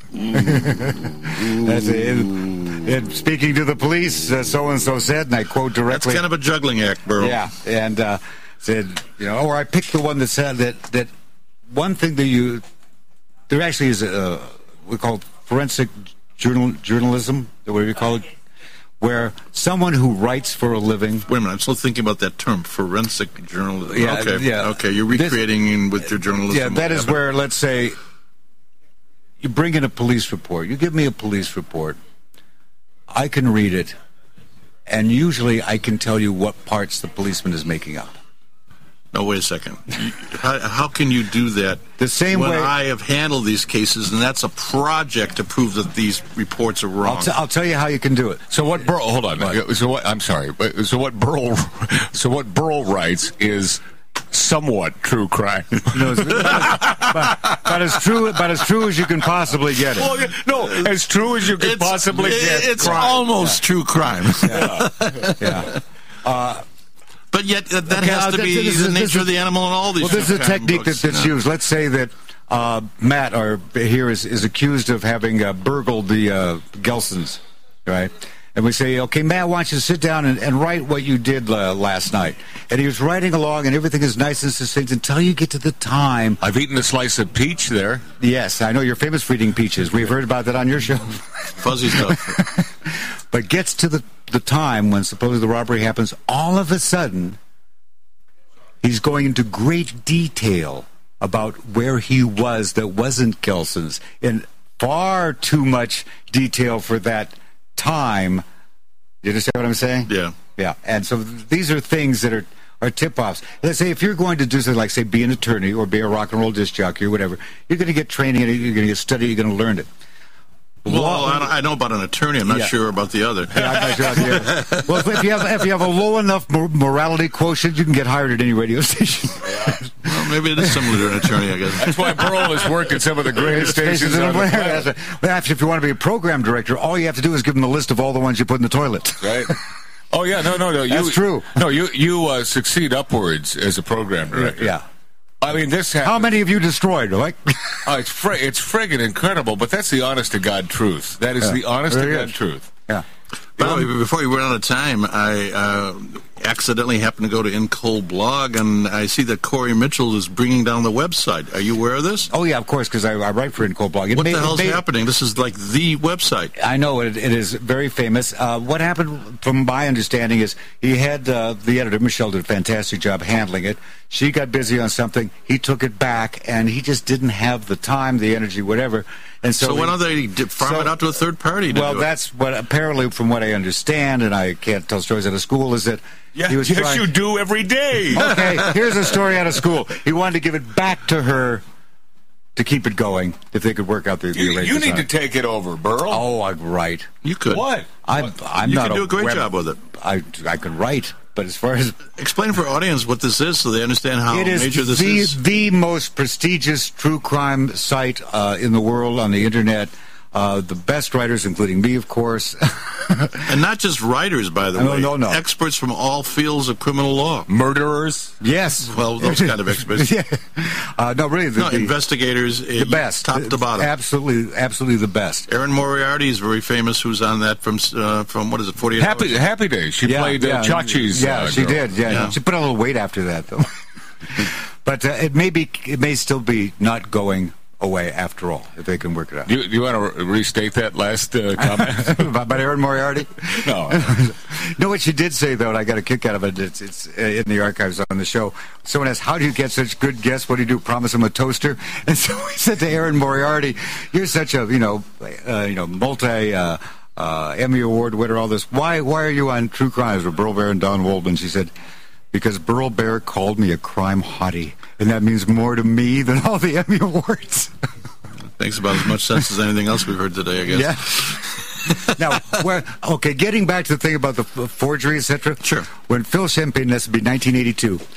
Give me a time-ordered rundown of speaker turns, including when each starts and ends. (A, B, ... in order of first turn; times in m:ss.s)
0:00.3-0:06.2 A
0:05.9-0:07.4 B
0:07.2-0:11.1 A
0:11.7-0:12.6 A
0:13.5-0:18.3 A
0:19.0-0:21.3 A
0:21.3-0:27.2 B
0:23.9-0:25.4 A
0:26.5-0:28.0 A
0:29.4-0:32.0 A
0:33.1-0:34.0 A
0:34.9-0:38.1 A
0:39.1-0:47.3 B
0:42.0-0:42.7 A
0:47.0-0:48.5 A
0:48.5-0:53.8 C
0:54.3-0:57.2 C
0:55.9-1:00.1 A
0:59.9-1:03.2 C
1:01.6-1:05.7 B
1:02.8-1:03.6 A
1:04.4-1:04.7 A
1:04.5-1:04.9 C
1:05.4-1:05.7 A
1:06.2-1:06.6 A
1:07.3-1:11.3 B
1:07.9-1:09.3 A
1:10.0-1:26.4 A
1:26.4-1:28.0 C
1:28.2-1:31.3 A
1:31.6-1:32.4 B
1:32.0-1:37.4 A
1:38.8-1:48.4 A
1:49.2-1:59.9 A
1:50.1-1:50.4 B
2:00.8-2:01.5 A
2:00.9-2:05.0 B
2:03.5-2:10.9 A
2:10.0-2:12.3 B
2:11.8-2:14.9 C
2:13.4-2:19.6 A
2:19.2-2:19.5 C
2:20.1-2:24.7 C
2:20.9-2:21.6 A
2:24.3-2:24.8 A
2:25.4-2:26.2 C
2:26.0-2:27.9 A
2:27.8-2:32.7 C
2:31.4-2:32.3 A
2:33.6-2:42.3 B
2:42.3-2:44.8 A
2:44.1-2:46.5 B
2:46.6-3:00.0 A
2:59.6-3:02.1 B
3:00.6-3:00.9 A
3:01.7-3:07.1 A
3:06.4-3:08.6 C
3:08.1-3:11.6 A
3:12.6-3:15.0 A
3:14.3-3:16.2 C
3:16.1-3:17.1 A
3:17.2-3:17.6 B
3:17.5-3:17.9 C
3:18.1-3:22.0 A
3:18.6-3:19.8 B
3:22.2-3:25.4 B
3:24.3-3:33.5 A
3:33.4-3:37.5 B
3:34.8-3:35.4 A
3:37.5-3:38.3 C
3:38.4-3:41.9 A
3:38.8-3:40.1 B
3:41.6-3:43.9 B
3:42.8-3:45.5 A
3:45.5-3:49.4 B
3:49.0-3:51.9 C
3:50.0-3:53.8 A
3:52.1-3:52.3 B
3:54.3-3:59.5 A
3:59.5-4:02.3 C
4:01.6-4:21.7 A
4:03.6-4:04.2 C
4:22.3-4:27.7 A
4:28.6-4:31.4 B
4:30.7-4:31.3 A
4:31.9-4:38.0 A
4:35.6-4:35.9 B